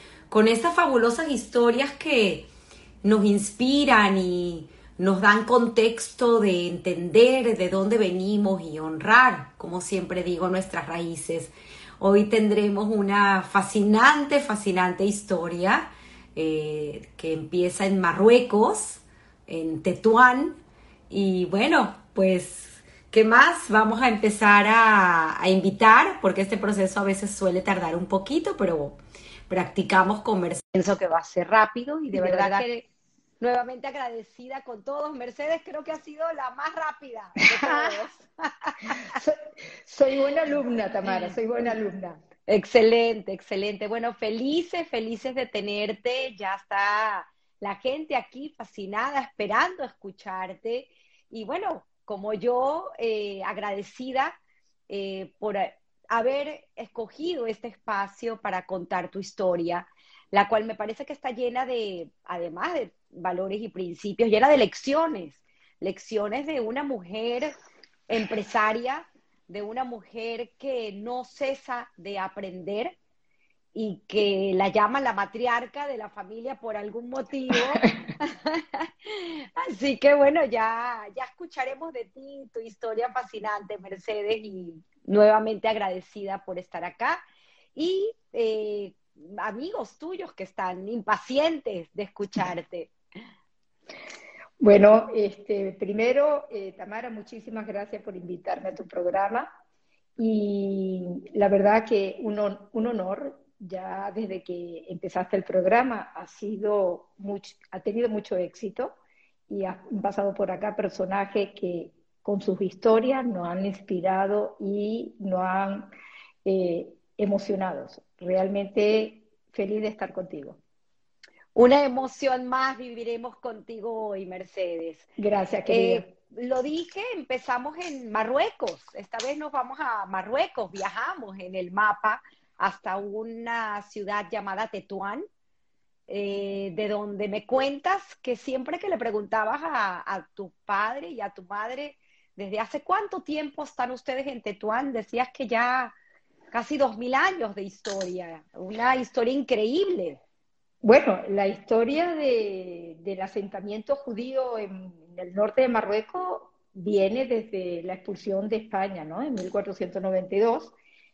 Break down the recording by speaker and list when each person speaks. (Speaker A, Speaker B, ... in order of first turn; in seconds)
Speaker A: 0.3-2.5, 3.0-20.6, 21.1-32.8, 33.4-39.2, 41.0-41.4, 42.5-54.4, 54.9-67.5, 68.1-73.0, 73.7-87.2, 87.8-92.9, 121.5-125.1, 125.7-135.2, 136.1-146.0, 146.5-150.2
Speaker B: 32.1-32.7, 37.5-38.0, 38.9-42.2, 94.6-99.5, 100.2-109.0, 109.5-115.9, 116.5-120.6, 125.2-126.1, 150.8-160.7